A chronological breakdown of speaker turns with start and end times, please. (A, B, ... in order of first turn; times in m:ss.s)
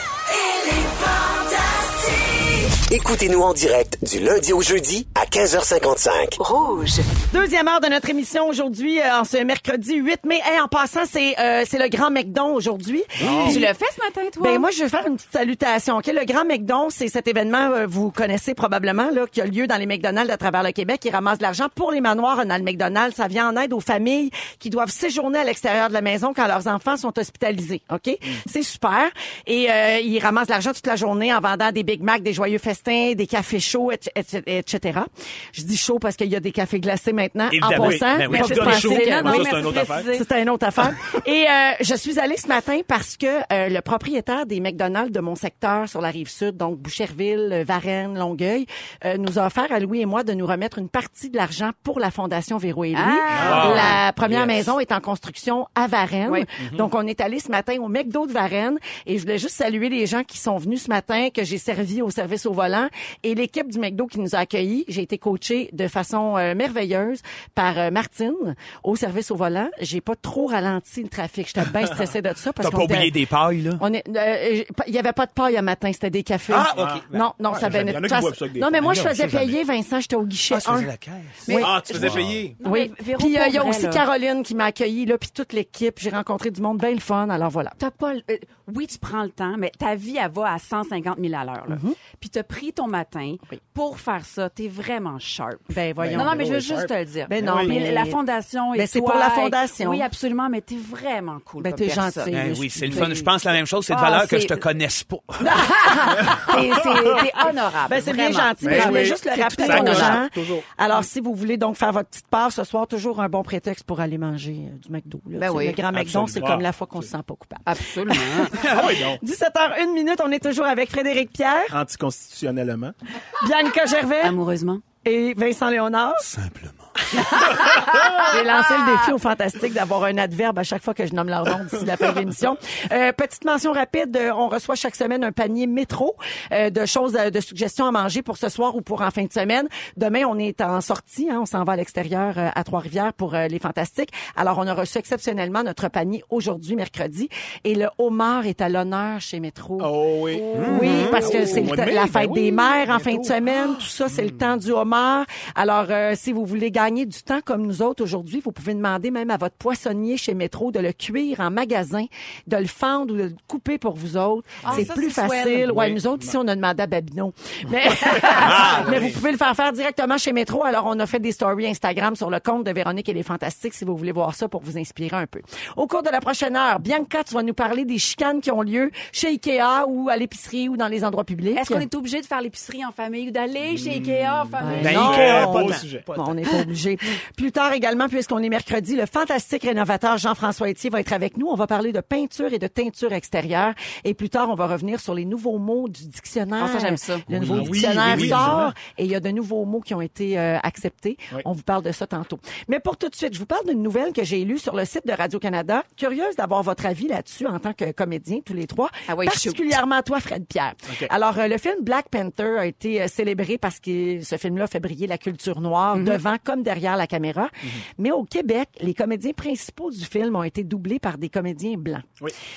0:02.9-0:06.9 A
0:07.3-0:13.7 B
0:13.2-0:13.6 C
0:13.4-0:14.7 D
0:14.4-1:13.2 B
0:37.5-0:38.7 E
0:37.7-0:40.1 C
0:38.3-0:40.2 D
0:52.9-0:54.0 D
0:53.3-0:54.7 C
0:56.6-0:56.9 C
1:12.6-1:13.8 E
1:13.8-1:20.9 B
1:16.5-1:17.2 E
1:16.7-1:19.5 C
1:20.5-1:22.5 E
1:21.4-1:24.0 D
1:21.4-1:27.8 B
1:21.6-1:22.5 C
1:27.8-1:42.3 D
1:31.7-1:32.0 B
1:35.7-1:36.5 B
1:36.0-1:37.7 C
1:37.3-1:38.2 B
1:38.7-1:40.0 B
1:41.6-1:43.3 B
1:42.3-1:45.4 E
1:43.9-1:44.6 D
1:45.4-1:47.2 B
1:45.5-1:50.2 D
1:47.9-2:01.8 B
1:48.6-1:50.6 C
1:55.4-1:55.8 D
1:55.9-1:57.1 C
1:57.6-1:58.6 D
1:58.6-1:59.2 C
2:01.7-2:02.9 C
2:03.4-2:04.3 B
2:04.2-2:04.8 D
2:05.0-2:06.3 B
2:06.2-2:06.9 E
2:07.2-3:01.8 B
2:29.8-2:34.4 C
2:30.5-2:31.7 E
2:30.7-2:31.1 D
2:44.6-2:45.8 D
2:45.8-2:46.2 C
2:48.1-2:48.6 D
2:48.4-2:49.2 E
3:01.5-3:05.0 D
3:04.6-3:42.0 B
3:04.8-3:06.2 E
3:04.8-3:06.1 C
3:16.6-3:17.2 D
3:17.3-3:18.7 C
3:17.4-3:18.5 E
3:29.1-3:29.6 D
3:35.9-3:36.2 D